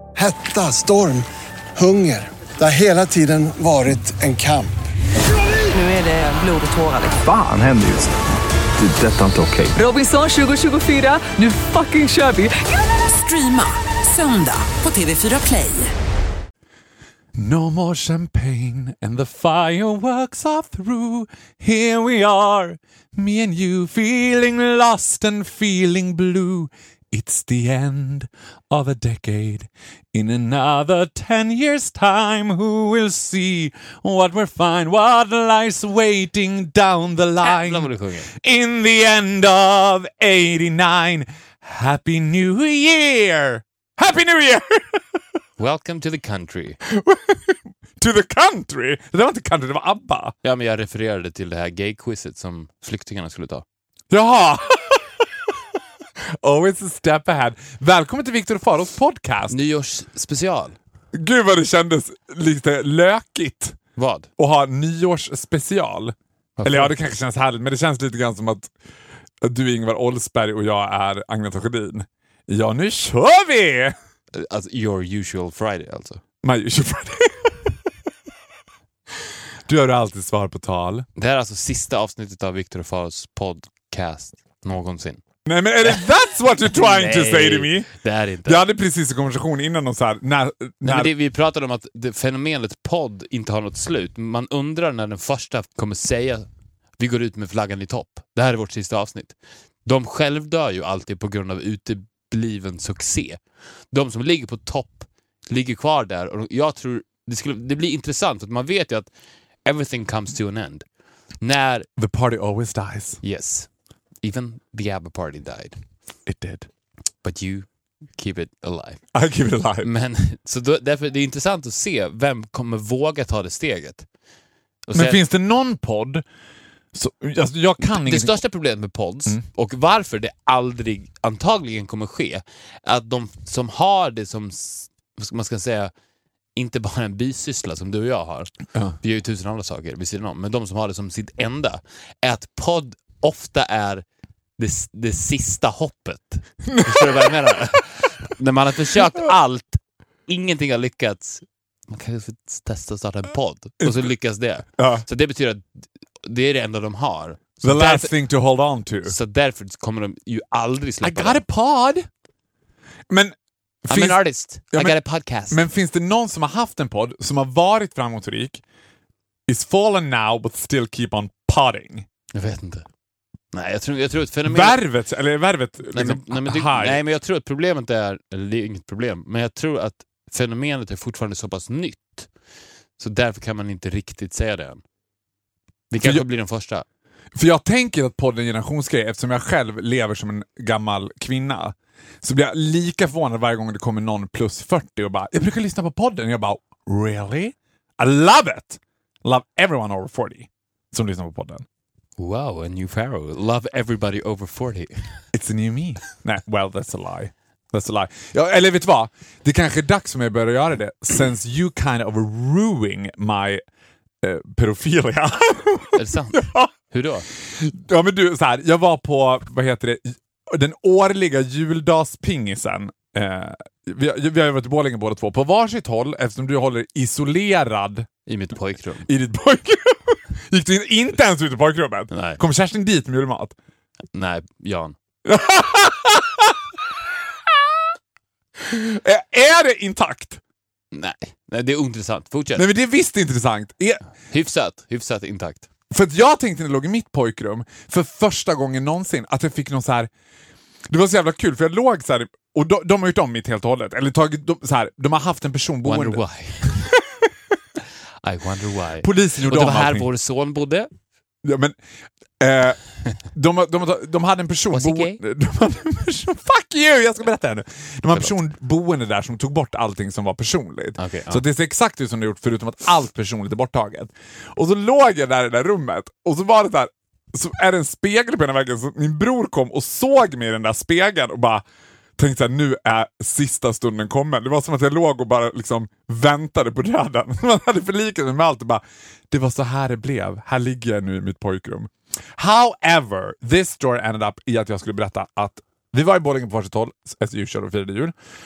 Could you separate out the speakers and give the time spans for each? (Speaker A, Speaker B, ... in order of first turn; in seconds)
Speaker A: 0.1-4.7
Speaker B: 5.7-7.2, 9.8-15.9
Speaker C: 7.1-8.1, 8.8-9.8
Speaker D: 17.3-45.0, 46.8-50.3, 54.1-55.6, 56.3-59.5, 61.1-63.8, 64.4-68.7, 69.4-73.9, 76.4-77.7, 79.7-81.1, 85.4-87.9, 88.4-91.1, 112.0-113.2, 116.2-116.7, 119.1-119.9, 124.9-126.2, 126.9-128.4, 146.7-147.6, 153.8-154.1, 154.8-155.0, 157.6-159.1, 161.0-162.1, 163.1-165.0, 165.5-168.6, 169.5-172.1, 174.4-177.0, 185.9-186.2, 187.3-201.6, 205.3-213.6, 214.2-216.7, 217.4-228.1, 229.1-233.5, 235.2-236.5, 238.6-240.4, 242.6-244.0, 245.9-250.1, 250.9-256.2, 259.0-260.1, 261.4-261.8, 262.4-281.6, 282.2-298.1
Speaker E: 37.4-38.3, 45.6-46.8, 50.4-53.6, 59.5-60.8, 64.0-64.3, 66.6-67.0, 74.3-76.2, 81.2-85.2, 86.7-88.6, 90.8-96.5, 97.0-103.4, 103.9-109.1, 109.6-110.8, 111.4-111.9, 113.2-113.7, 114.2-115.8, 117.2-119.0, 119.8-124.1, 124.9-125.2, 127.8-135.9, 136.6-144.0, 144.6-155.6, 156.2-158.1, 159.0-161.4, 163.9-165.6, 172.3-172.8, 173.5-174.8, 175.9-182.3, 183.0-184.8, 185.9-186.8, 202.2-204.9, 215.9-217.3, 228.2-229.1, 232.1-232.4, 234.1-234.9, 240.9-242.7, 244.3-245.7, 255.8-256.9, 258.2-260.9, 264.7-265.2, 271.0-271.4